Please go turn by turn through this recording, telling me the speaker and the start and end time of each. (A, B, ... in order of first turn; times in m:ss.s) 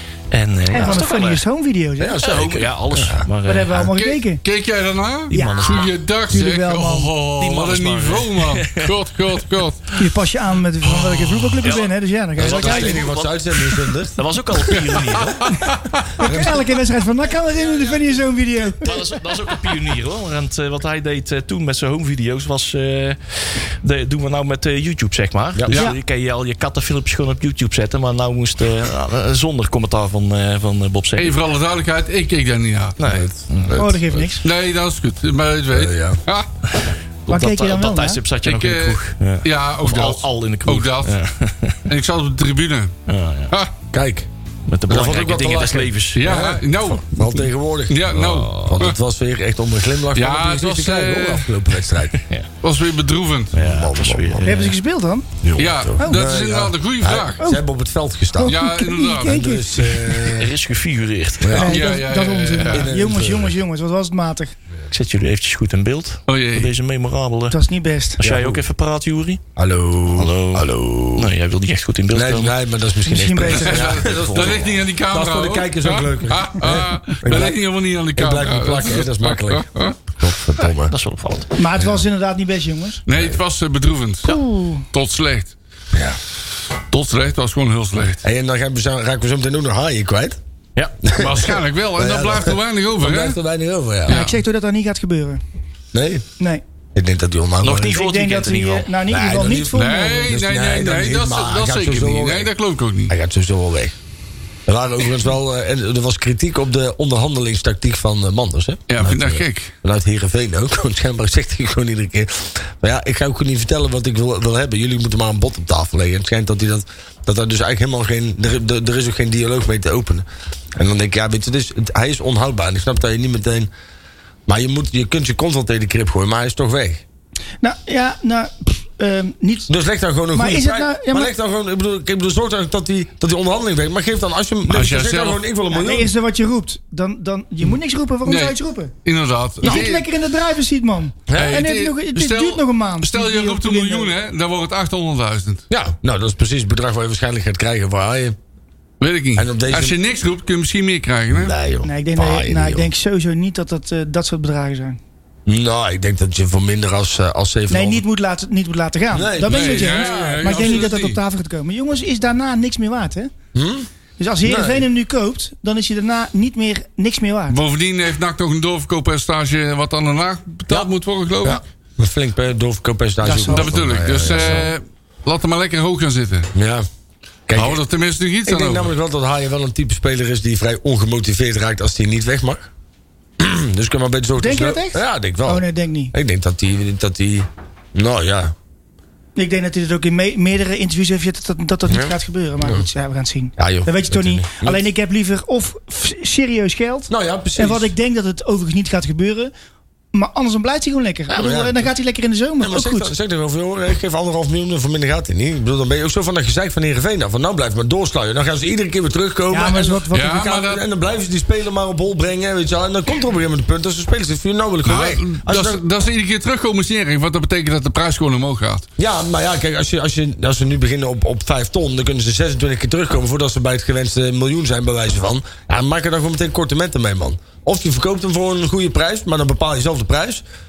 0:00.3-0:01.4 A
0:00.7-0:02.2 B
0:00.7-0:01.0 C
0:02.0-0:03.3 C
0:02.2-0:03.9 A
0:03.4-0:04.4 B
0:03.8-0:09.8 D
0:05.3-0:07.1 B
0:05.3-0:05.9 A
0:07.4-0:09.4 A
0:10.0-0:13.0 B
0:11.6-0:15.5 A
0:12.4-0:14.7 C
0:14.7-0:16.1 D
0:16.2-0:19.0 B
0:16.2-0:16.6 C
0:18.8-0:31.4 A
0:31.2-0:33.0 D
0:33.0-0:33.8 A
0:33.0-0:34.2 C
0:33.8-0:34.4 B
0:34.4-0:36.5 D
0:35.7-0:36.2 C
0:36.7-0:41.9 A
0:37.3-0:38.2 B
0:38.4-0:41.1 D
0:41.9-0:42.9 D
0:43.1-0:43.5 A
0:43.9-0:44.3 C
0:44.7-0:46.3 A
0:44.9-0:52.2 C
0:46.1-0:49.0 D
0:48.2-0:48.9 A
0:50.1-0:51.5 D
0:52.2-0:52.5 A
0:52.6-0:53.6 D
0:53.5-0:54.8 A
0:53.5-0:54.5 C
0:54.4-0:55.3 B
0:55.4-0:58.6 C
0:55.5-0:55.9 A
0:55.6-0:57.4 D
0:56.0-0:56.2 B
0:58.4-0:59.9 B
0:58.4-0:59.4 D
0:59.2-1:00.5 C
1:00.1-1:01.7 A
1:01.4-1:01.8 C
1:01.5-1:04.5 B
1:01.6-1:02.9 D
1:02.7-1:03.6 C
1:04.9-1:07.6 A
1:06.3-1:06.7 D
1:07.5-1:08.2 B
1:08.2-1:09.4 A
1:08.2-1:08.6 C
1:09.6-1:11.3 C
1:10.1-1:12.6 A
1:12.1-1:17.6 C
1:13.0-1:13.8 B
1:13.5-1:20.0 D
1:13.8-1:14.8 A
1:18.1-1:20.9 C
1:20.9-1:21.5 A
1:21.6-1:23.0 B
1:21.7-1:22.0 C
1:23.1-1:24.4 D
1:23.1-1:23.4 C
1:24.2-1:24.8 B
1:24.9-1:25.5 D
1:25.9-1:26.2 C
1:26.9-1:28.2 D
1:28.2-1:30.4 C
1:31.0-1:34.2 C
1:31.2-1:33.4 D
1:34.1-1:35.4 B
1:34.1-1:34.4 D
1:35.9-1:36.2 C
1:36.9-1:38.0 C
1:37.6-1:38.9 A
1:37.9-1:40.3 B
1:39.1-1:42.5 C
1:39.7-1:43.1 D
1:43.1-1:43.9 C
1:44.7-2:03.7 C
1:48.9-1:49.7 D
2:04.5-2:07.0 C
2:07.6-2:09.7 B
2:09.7-2:16.1 C
2:10.3-2:11.3 B
2:14.7-2:15.4 D
2:15.7-2:18.9 B
2:18.2-2:20.0 D
2:19.6-2:24.1 B
2:21.3-2:21.6 C
2:21.4-2:25.6 D
2:25.7-2:28.4 C
2:29.0-2:31.5 D
2:29.3-2:30.0 C
2:31.3-2:32.9 C
2:31.8-2:35.0 B
2:35.5-2:38.0 C
2:37.7-2:43.3 B
2:39.1-2:40.9 C
2:39.5-2:41.2 D
2:43.5-2:43.9 C
2:44.2-2:47.6 B
2:44.4-2:44.9 C
2:47.5-2:51.6 D
2:51.4-2:54.7 C
2:53.2-2:53.7 B
2:53.5-2:56.5 D
2:56.5-2:56.8 C
2:57.5-2:57.8 C
2:57.6-2:58.9 D
2:58.4-3:02.7 C
3:03.4-3:08.5 C
3:04.4-3:06.1 B
3:09.4-3:19.5 B
3:11.9-3:12.8 C
3:13.6-3:14.8 C
3:17.1-3:17.9 C
3:20.1-3:23.1 B
3:21.3-3:21.9 C
3:22.6-3:35.8 C
3:29.5-3:30.5 B
3:30.1-3:30.8 D
3:34.8-3:38.8 D
3:39.0-3:50.4 C